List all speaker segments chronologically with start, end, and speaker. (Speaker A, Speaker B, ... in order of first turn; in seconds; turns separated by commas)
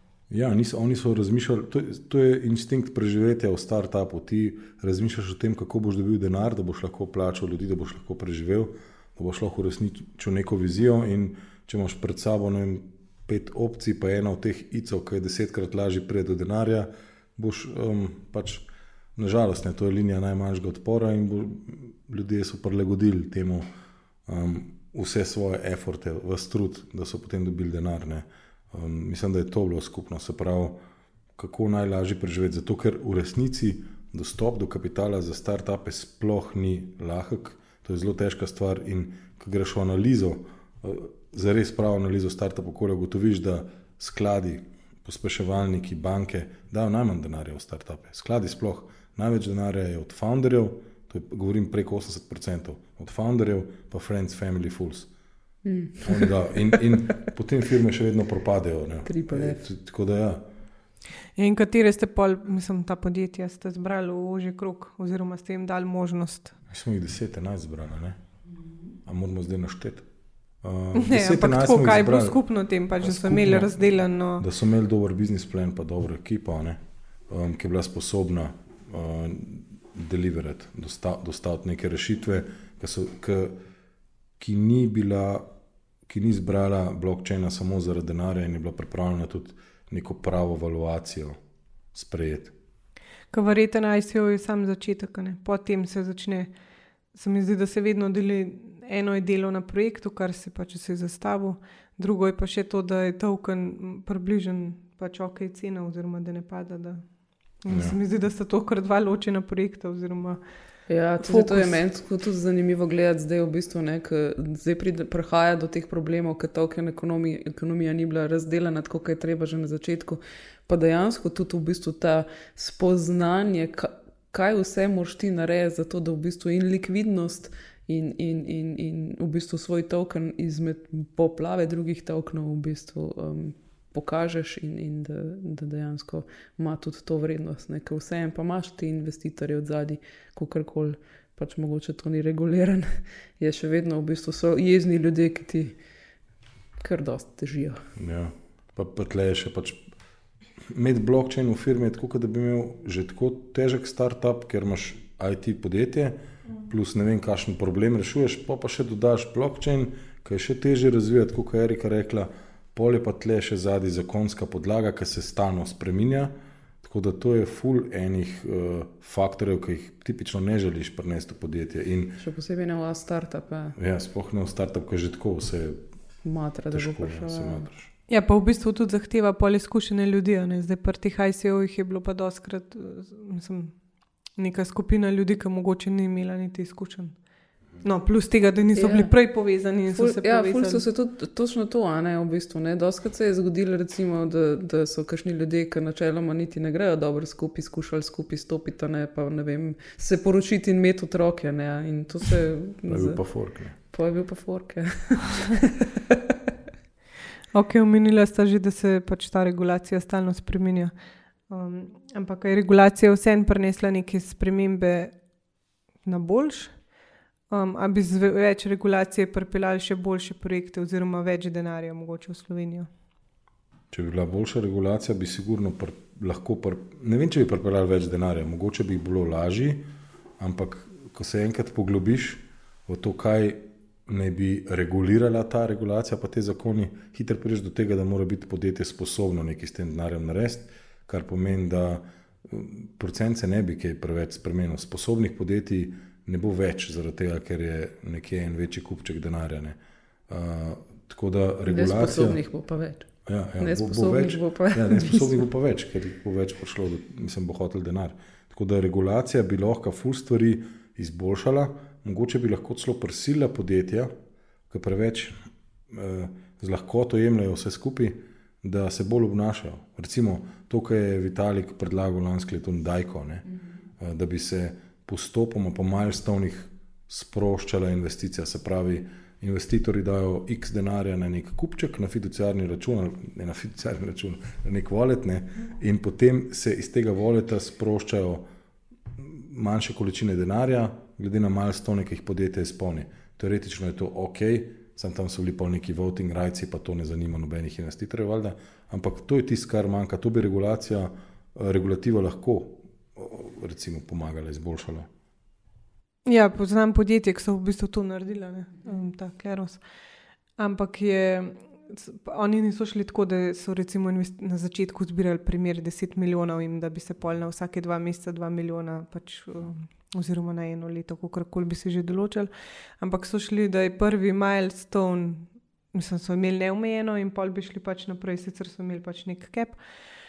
Speaker A: 0.3-23.6, Speaker A: 24.2-30.8, Speaker A: 31.4-55.1, Speaker B: 55.6-56.3, Speaker A: 56.0-60.5, Speaker B: 59.0-59.6, Speaker C: 61.4-66.6, Speaker A: 66.7-68.2, Speaker A: 69.0-70.1, Speaker A: 70.6-72.4, Speaker C: 71.0-74.5, Speaker A: 73.0-73.8, Speaker A: 74.4-83.5, Speaker A: 84.4-85.5, Speaker A: 86.0-91.3, Speaker A: 91.9-92.5, Speaker C: 93.3-96.5, Speaker C: 97.1-107.1, Speaker C: 107.6-110.4, Speaker A: 107.7-108.0, Speaker B: 110.9-145.8, Speaker C: 111.2-111.8, Speaker B: 146.8-147.8, Speaker A: 148.0-149.8, Speaker A: 150.7-172.2, Speaker B: 172.2-173.8, Speaker A: 173.8-175.8, Speaker B: 176.2-177.7, Speaker A: 176.7-177.9, Speaker C: 178.1-190.8, Speaker B: 188.8-189.2, Speaker B: 189.9-203.2, Speaker A: 202.9-203.8, Speaker B: 203.8-205.7, Speaker C: 207.5-210.9, Speaker C: 211.5-215.2, Speaker C: 216.0-216.8, Speaker C: 217.5-222.9, Speaker A: 223.9-229.8, Speaker A: 230.4-249.8, Speaker A: 250.3-252.4, Speaker B: 251.7-253.1, Speaker A: 253.3-264.1, Speaker B: 253.6-255.4, Speaker A: 264.7-273.4, Speaker A: 274.0-288.4, Speaker A: 289.1-305.1, Speaker C: 306.3-309.8, Speaker C: 310.6-329.8